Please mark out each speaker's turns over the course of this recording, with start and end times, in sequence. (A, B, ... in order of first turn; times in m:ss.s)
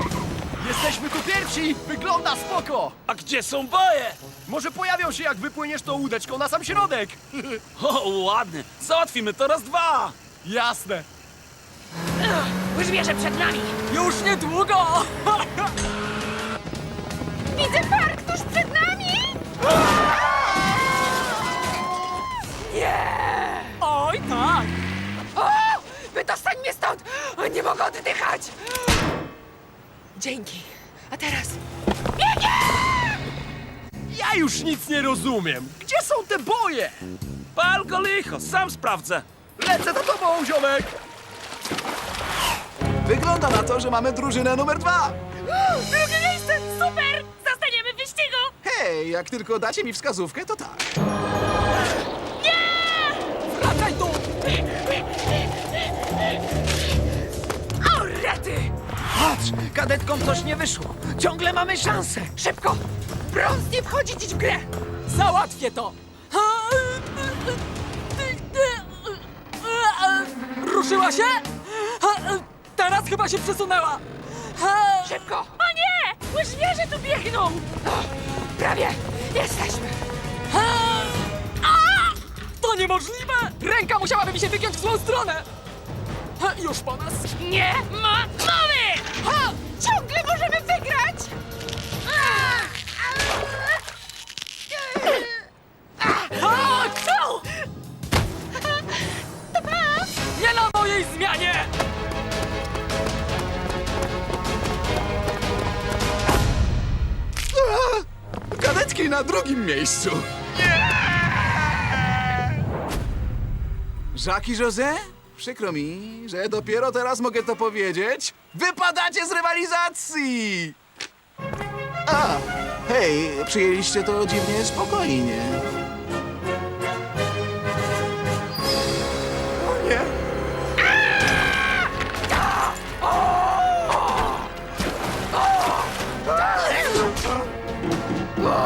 0:00.6-0:02.9 A
0:03.1-0:04.2 B
0:04.4-0:07.6 A
0:07.8-0:10.2 B
0:10.4-0:11.0 A
0:12.2-0:13.8 C
0:13.9-0:15.7 D
0:17.5-0:19.4 E
0:22.7-0:23.7 E
0:23.8-0:24.7 D
0:25.4-0:29.0 E
0:30.2-0:31.6 E
0:32.2-0:33.2 E
0:34.1-0:37.0 A
0:37.5-0:39.2 B
0:39.6-0:40.9 A
0:43.0-0:45.2 F
0:45.6-0:48.5 C
0:48.6-0:50.9 F
0:52.6-0:53.0 C
0:53.5-0:54.2 D
0:57.8-0:58.7 E
0:59.1-1:02.3 G
1:02.4-1:04.7 E
1:05.1-1:07.6 D
1:08.2-1:15.2 D
1:15.0-1:20.0 E
1:20.5-1:21.2 D
1:22.6-1:25.4 D
1:26.4-1:27.3 D
1:27.4-1:29.1 C
1:29.2-1:31.3 E
1:36.3-1:37.4 D
1:39.6-1:40.0 E
1:40.3-1:41.7 D
1:47.5-1:48.0 F
1:48.6-1:52.4 F
1:54.1-2:00.7 F
2:02.0-2:05.6 F
2:09.6-2:10.2 G
2:16.6-2:17.2 G